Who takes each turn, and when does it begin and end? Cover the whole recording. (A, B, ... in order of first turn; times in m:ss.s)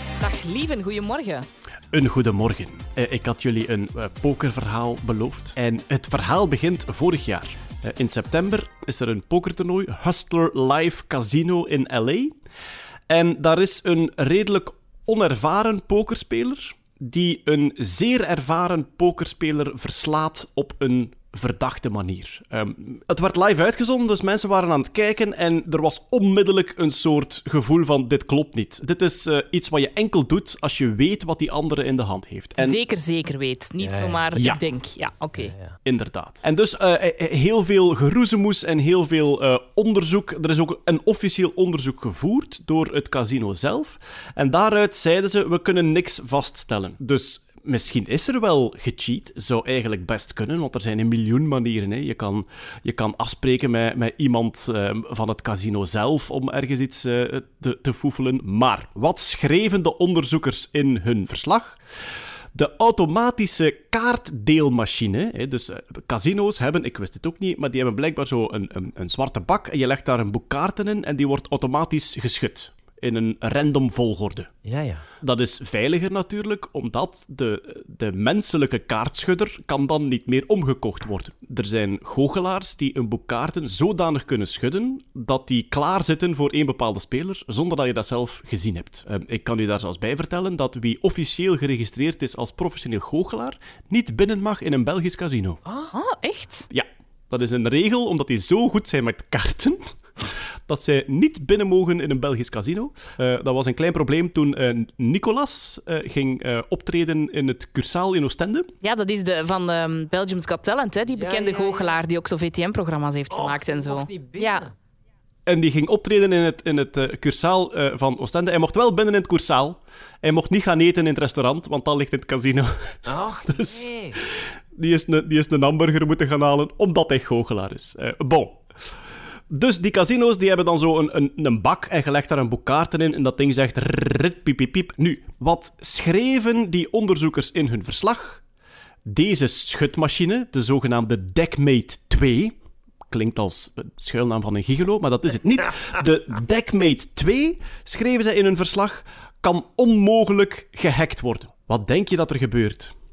0:00.2-0:01.5 A
0:01.9-0:12.3 B
0:13.1-0:32.8 B
0:32.6-0:35.5 A
0:33.8-0:34.4 C
0:34.4-0:34.6 B
0:35.4-0:35.8 C
0:35.8-1:01.8 B
1:02.5-1:14.5 B
1:14.6-1:15.0 C
1:15.2-1:35.6 B
1:35.9-1:36.7 A
1:36.7-1:39.8 B
1:40.7-1:48.7 B
1:48.8-1:54.7 A
1:51.1-1:52.0 C
1:53.3-1:54.7 C
1:55.5-2:03.0 B
2:03.1-2:04.2 C
2:03.5-2:03.9 B
2:04.8-2:08.6 B
2:09.5-2:18.4 B
2:19.1-2:22.5 B
2:23.1-2:32.9 B